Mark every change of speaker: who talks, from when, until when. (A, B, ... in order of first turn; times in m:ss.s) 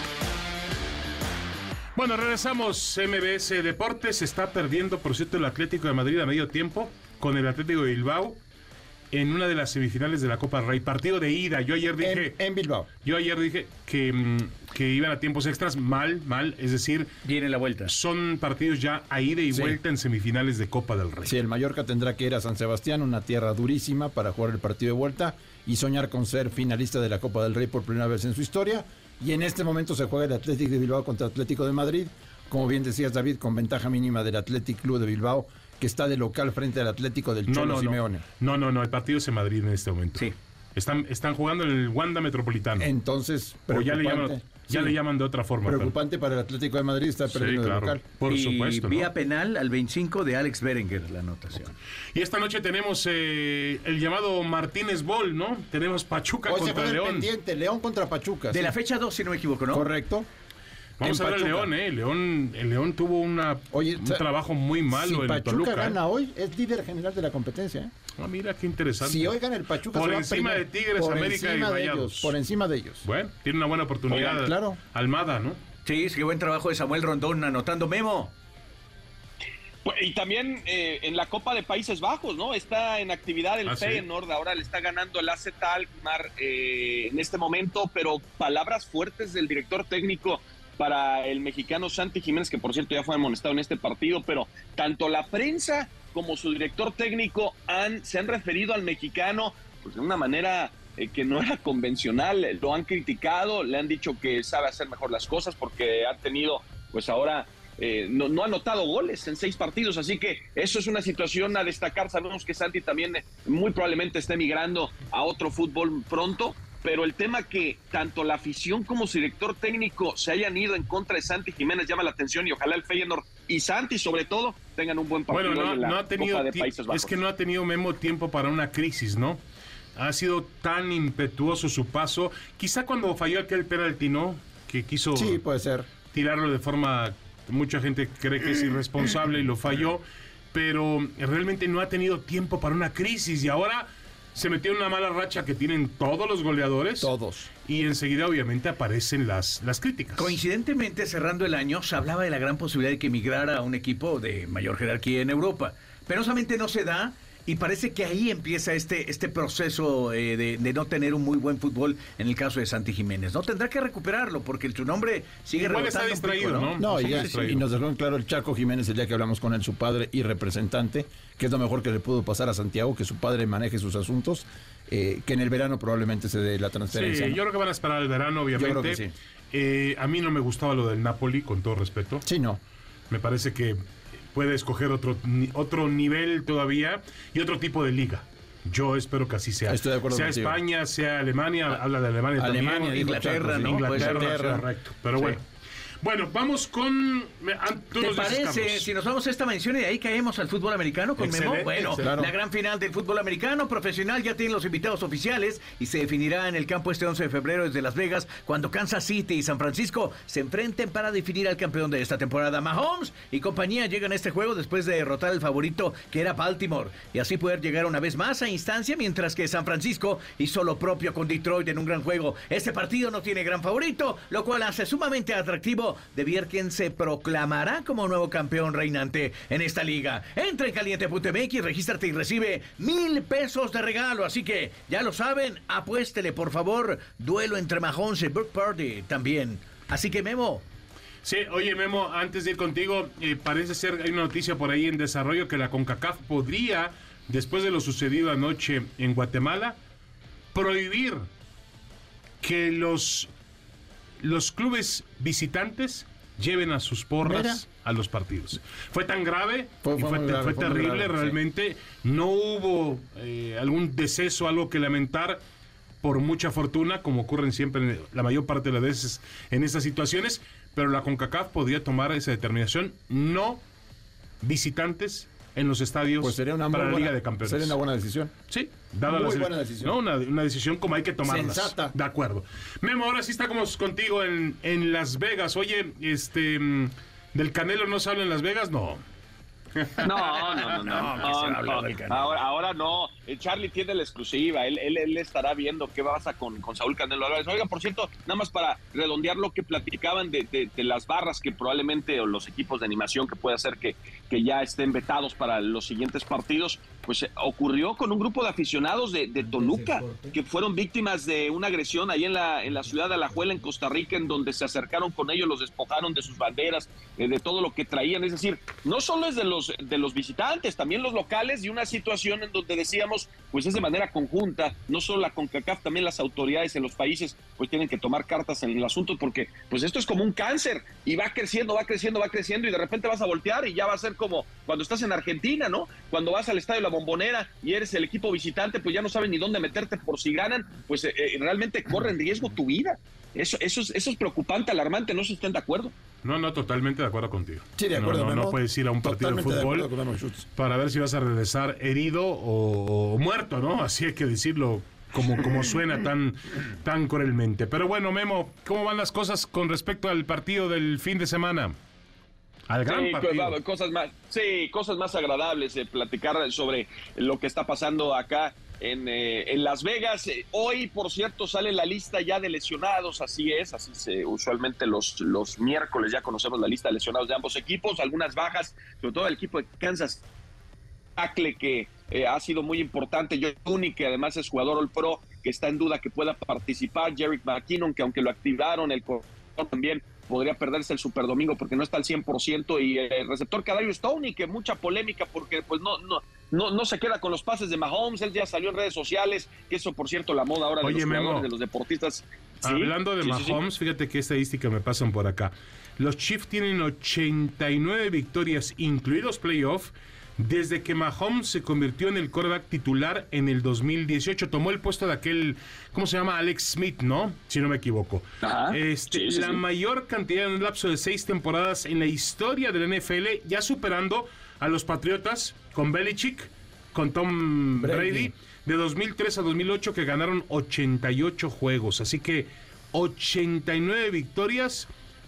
0:02.0-0:08.4 A
0:09.1-0:12.4 A
0:12.0-0:12.9 B
0:13.0-0:17.1 A
0:17.2-0:17.9 C
0:17.9-0:21.4 A
0:19.5-0:19.8 B
0:21.2-0:38.2 B
0:37.5-0:42.9 A
0:42.8-0:45.0 B
0:43.7-0:45.9 A
0:45.6-0:48.0 B
0:47.3-0:49.1 A
0:48.3-0:51.7 C
0:52.1-0:57.3 A
0:56.4-0:58.7 B
0:58.5-0:59.9 C
0:59.7-1:00.3 B
1:01.0-1:06.0 A
1:01.0-1:01.7 B
1:03.7-1:04.2 B
1:04.9-1:07.9 B
1:08.2-1:09.3 A
1:09.0-1:13.0 B
1:09.9-1:12.3 A
1:13.0-1:15.6 A
1:14.1-1:14.8 B
1:15.8-1:18.3 C
1:19.8-2:07.2 D
1:23.6-1:24.0 A
2:05.3-2:09.4 A
2:10.0-2:15.4 A
2:15.1-2:15.9 B
2:16.1-2:20.0 A
2:20.5-2:27.1 A
2:27.0-2:27.5 B
2:27.6-2:30.4 A
2:30.2-2:47.4 C
2:45.6-2:47.6 A
2:46.8-2:57.4 B
2:56.9-3:02.2 A
2:58.5-2:59.1 B
3:02.2-3:02.6 B
3:03.1-3:03.8 A
3:04.3-3:15.4 A
3:09.6-3:10.6 B
3:12.4-3:14.6 B
3:12.9-3:14.4 C
3:16.0-3:18.9 A
3:18.0-4:00.6 C
3:21.2-3:22.0 A
3:22.0-3:22.3 B
4:01.2-4:09.8 A
4:10.5-4:11.2 A
4:12.4-4:13.3 A
4:14.2-4:25.4 A
4:17.2-4:17.6 B
4:19.8-4:21.4 B
4:26.0-4:33.6 A
4:34.4-4:37.8 A
4:36.2-4:38.3 B
4:38.5-4:49.0 A
4:39.0-4:40.0 B
4:41.2-4:42.0 B
4:49.8-4:51.3 A
4:50.0-5:45.9 D
4:50.2-4:52.4 C
5:09.6-5:10.3 C
5:46.2-5:49.9 A
5:47.8-5:50.4 B
5:50.5-6:01.8 A
6:02.7-6:03.6 A
6:02.8-6:20.2 D
6:21.2-6:43.6 D
6:40.8-6:41.5 A
6:42.6-7:14.9 A
6:58.4-6:59.6 D
7:07.8-7:08.3 C